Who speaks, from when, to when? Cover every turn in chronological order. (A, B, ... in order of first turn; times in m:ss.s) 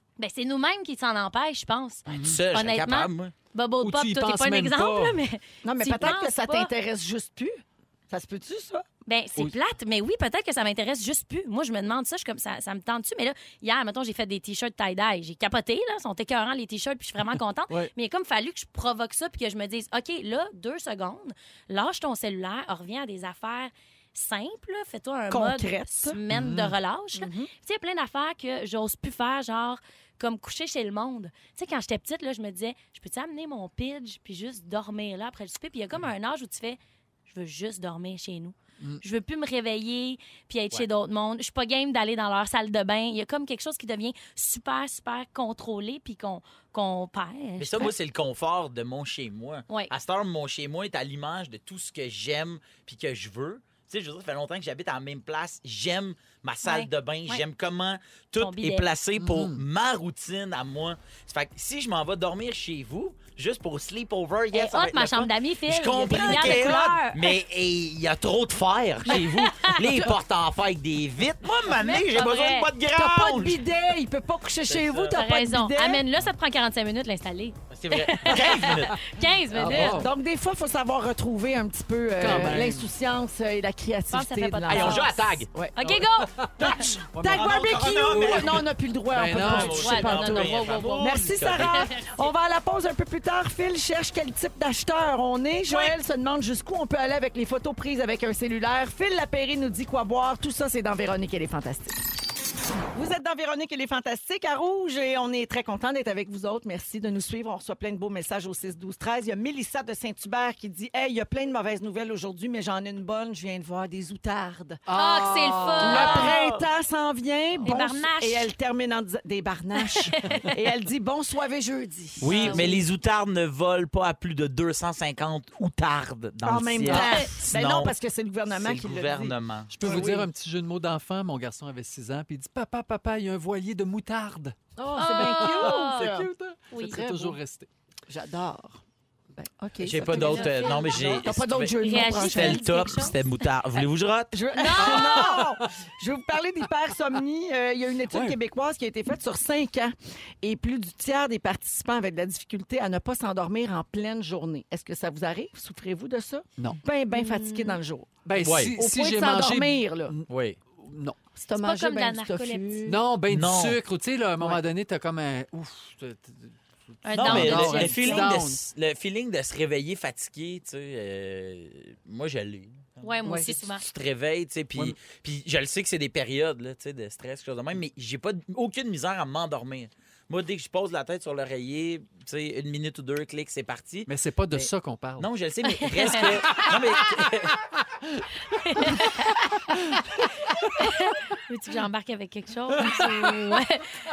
0:00.2-0:06.7 A
0:02.1-0:02.4 B
0:02.1-0:03.3 C
0:03.8-0:05.2 B
0:05.6-0:08.8 D
0:09.0-0:47.9 A
0:25.3-0:26.2 D
0:26.3-0:26.7 B
0:27.2-0:27.5 D
0:47.6-1:13.6 C
0:56.6-0:57.4 A
0:58.4-0:58.9 A
0:59.2-0:59.6 B
1:04.5-1:07.3 A
1:06.1-1:06.8 D
1:09.1-1:09.8 A
1:09.9-1:10.1 D
1:11.7-1:12.7 A
1:12.9-1:16.0 D
1:14.6-1:15.2 C
1:15.1-1:20.0 A
1:17.7-1:19.0 C
1:19.5-1:20.1 B
1:19.7-1:25.8 D
1:22.2-1:22.9 B
1:22.3-1:22.6 C
1:24.1-1:25.2 A
1:24.7-1:25.5 C
1:25.7-1:26.9 A
1:25.8-1:29.8 B
1:26.6-1:28.7 C
1:27.2-1:42.0 D
1:29.3-1:31.9 C
1:29.7-1:32.3 A
1:42.9-1:54.8 D
1:54.8-1:56.4 B
1:54.9-1:56.3 A
1:55.8-2:02.8 D
1:55.9-1:56.6 C
1:57.6-1:58.5 A
1:59.8-2:00.4 A
2:02.2-2:07.9 C
2:02.3-2:02.8 A
2:06.4-2:10.2 D
2:06.9-2:07.3 A
2:08.5-2:10.1 C
2:09.7-2:17.7 B
2:14.8-2:17.4 D
2:15.0-2:16.1 A
2:16.7-2:17.0 A
2:18.1-2:18.8 D
2:19.3-2:23.0 D
2:19.8-2:24.4 C
2:20.1-2:21.2 A
2:21.8-2:23.2 A
2:24.3-2:40.1 D
2:24.5-2:25.2 A
2:24.8-2:25.7 B
2:28.1-2:28.4 B
2:37.1-2:37.8 A
2:38.2-2:41.2 B
2:38.4-2:38.7 C
2:40.3-2:40.6 C
2:41.4-2:43.0 D
2:41.6-2:42.8 A
2:42.8-2:48.6 B
2:43.3-2:43.8 C
2:47.0-2:48.3 A
2:47.2-2:53.0 C
2:53.0-2:53.8 A
2:53.6-3:07.6 C
3:04.1-3:05.3 B
3:05.8-3:06.2 A
3:06.2-3:07.3 B
3:08.5-3:09.6 A
3:09.7-3:10.0 B
3:10.7-3:13.8 A
3:12.8-3:13.2 B